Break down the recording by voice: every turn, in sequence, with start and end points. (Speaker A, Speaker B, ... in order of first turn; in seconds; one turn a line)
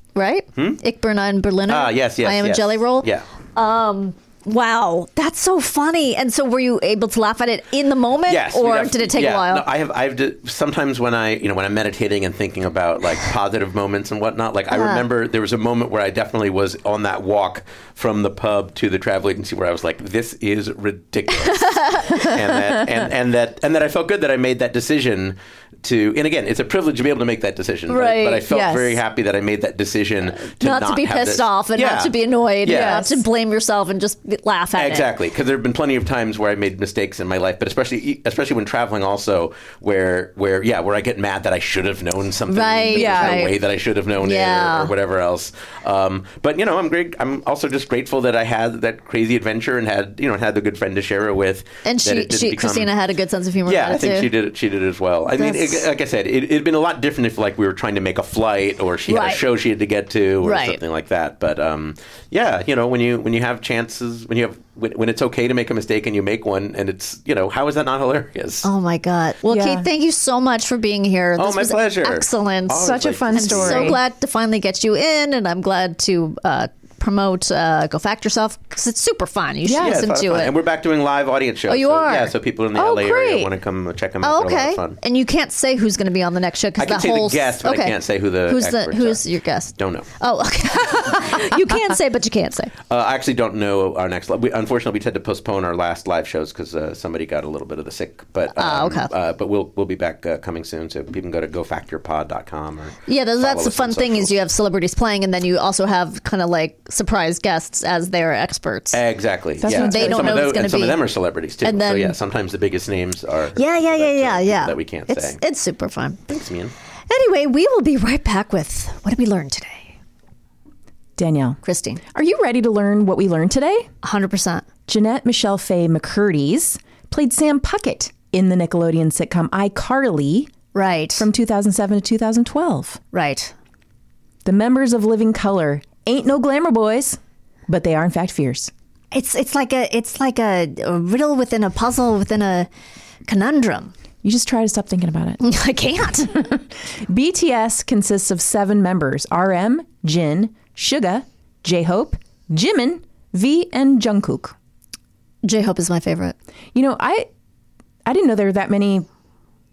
Speaker A: 0.2-9.7
Speaker B: 0.6-0.8
Speaker B: 1.7-3.2
Speaker B: 8.3-33.2
Speaker A: 14.7-15.1
Speaker A: 21.6-22.4
Speaker A: 27.9-28.5
Speaker C: 28.5-29.0
Speaker A: 30.4-35.1
Speaker C: 32.7-33.1
Speaker B: 34.8-52.9
Speaker A: 42.5-43.6
Speaker C: 42.9-43.5
Speaker A: 44.2-44.9
Speaker A: 51.9-54.3
Speaker B: 53.7-68.7
Speaker A: 55.4-55.9
Speaker A: 59.1-59.5
Speaker A: 60.4-60.8
Speaker A: 68.6-80.5
Speaker C: 69.5-69.9
Speaker B: 71.4-74.0
Speaker C: 72.8-74.0
Speaker C: 79.7-80.0
Speaker B: 79.8-85.0
Speaker A: 81.7-82.3
Speaker C: 82.8-83.5
Speaker A: 84.2-92.7
Speaker B: 86.8-89.2
Speaker B: 89.8-90.1
Speaker B: 92.9-104.3
Speaker A: 98.6-99.1
Speaker A: 103.1-109.0
Speaker B: 108.9-115.4
Speaker C: 109.6-110.5
Speaker A: 109.7-111.0
Speaker A: 111.6-112.2
Speaker A: 113.5-116.2
Speaker B: 116.3-116.7
Speaker A: 117.1-119.9
Speaker C: 121.2-121.6
Speaker A: 121.6-122.0
Speaker C: 122.1-123.9
Speaker A: 124.0-124.7
Speaker C: 124.9-130.5
Speaker A: 130.7-131.3
Speaker C: 131.2-133.0
Speaker A: 133.1-133.5
Speaker C: 134.4-138.7
Speaker A: 139.1-142.7
Speaker A: 143.3-143.9
Speaker C: 144.2-145.4
Speaker A: 145.4-146.5
Speaker C: 146.3-154.6
Speaker A: 155.4-156.3
Speaker C: 156.7-157.3
Speaker C: 158.1-159.1